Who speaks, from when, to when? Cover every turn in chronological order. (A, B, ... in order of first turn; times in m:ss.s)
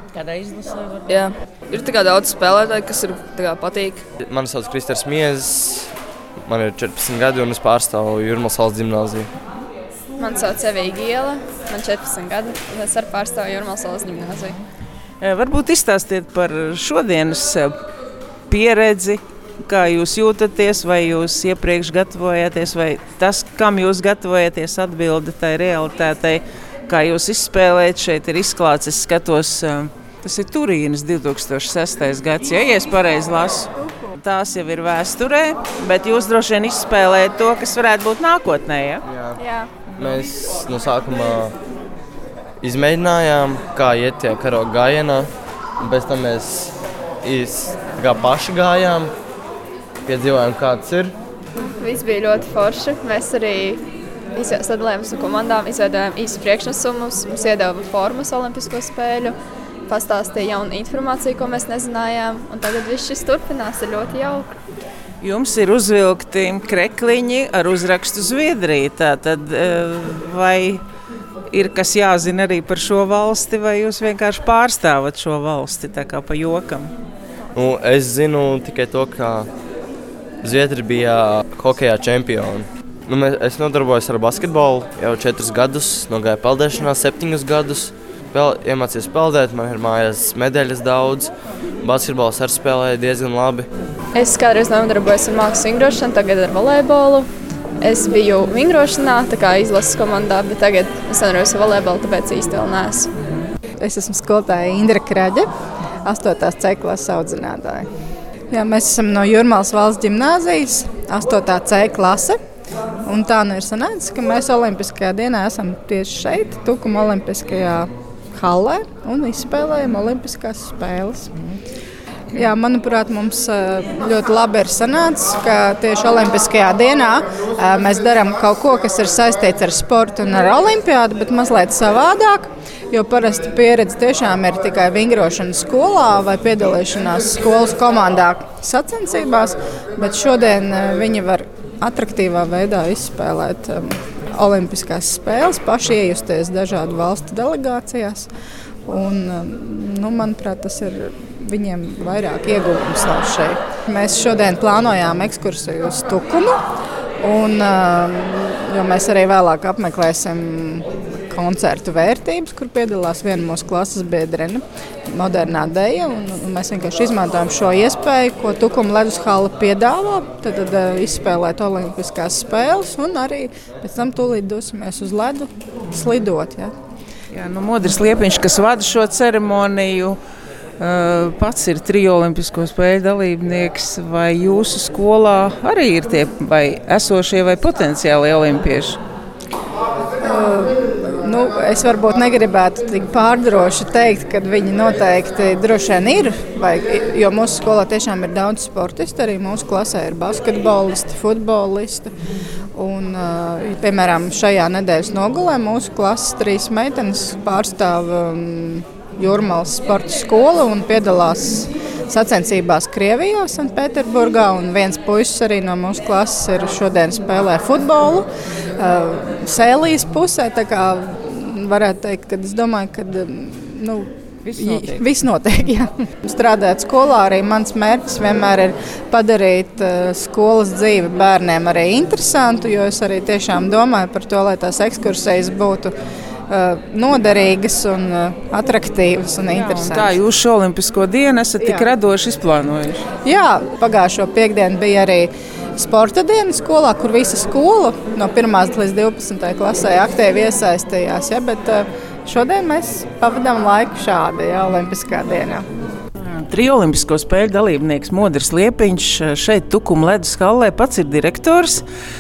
0:00.2-0:01.0 A
0:01.1-0:04.0 B
0:04.2-0:09.3 C
0:10.2-0:14.6 D
0:15.2-0:17.7 A
0:18.5-0:39.0 A
0:39.1-0:39.3 C
0:39.4-0:39.7 D
0:40.0-0:41.5 C
0:42.6-0:49.1 C
0:50.0-0:51.1 C
0:51.7-0:53.8 D
0:54.3-1:04.5 D
1:05.2-1:10.8 A
1:11.5-1:16.9 A
1:17.5-1:19.5 C
1:20.4-1:33.7 C
1:34.1-1:37.3 D
1:37.8-1:43.1 D
1:43.8-1:45.5 E
1:46.0-1:47.9 E
1:48.5-1:52.4 E
1:53.0-2:01.3 E
2:02.3-2:28.3 E
2:28.8-2:36.6 E
2:37.2-2:56.7 E
2:57.3-3:00.2 A
3:00.8-3:09.0 A
3:10.2-3:22.1 E
3:22.7-3:38.3 E
3:38.8-3:55.9 E
3:44.4-3:45.1 A
3:56.5-4:00.2 E
3:59.5-4:03.0 A
4:03.2-4:15.6 E
4:16.2-4:21.8 A